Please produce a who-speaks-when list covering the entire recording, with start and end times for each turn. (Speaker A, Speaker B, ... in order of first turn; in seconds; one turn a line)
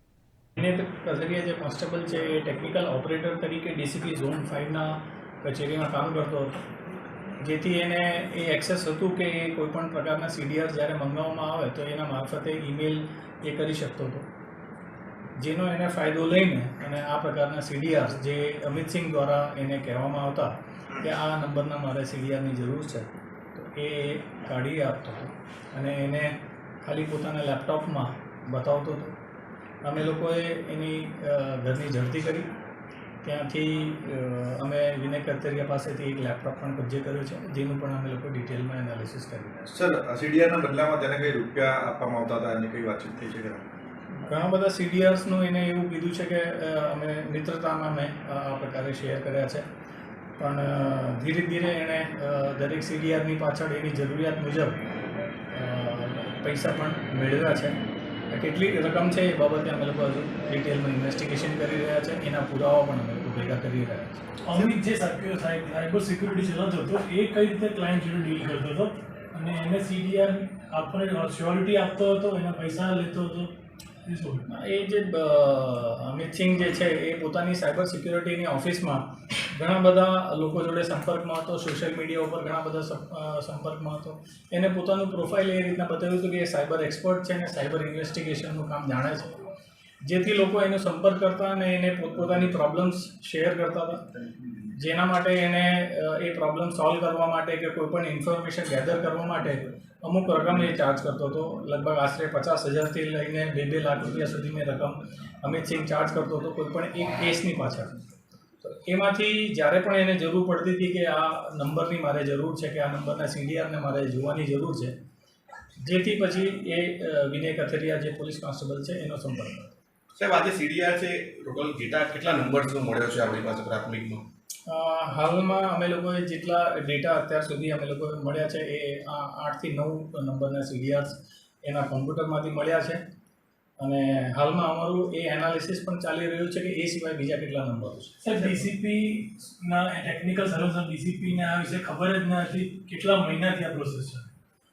Speaker A: 0.6-6.6
Speaker A: 7.4-14.2
Speaker A: 15.4-29.1
Speaker A: 29.8-32.5
Speaker A: 33.2-39.7
Speaker B: 39.7-43.6
Speaker A: 44.2-49.6
Speaker A: 50.4-54.8
Speaker A: 55.5-57.7
Speaker A: 58.3-64.8
Speaker C: 64.4-73.5
Speaker C: 74.0-74.4
Speaker A: 74.5-89.4
Speaker A: 90.0-94.0
Speaker A: 94.6-108.0
Speaker A: 108.6-114.9
Speaker A: 115.8-119.7
Speaker D: 120.2-124.2
Speaker A: 124.7-133.0
Speaker A: 133.8-138.6
Speaker C: 138.2-144.3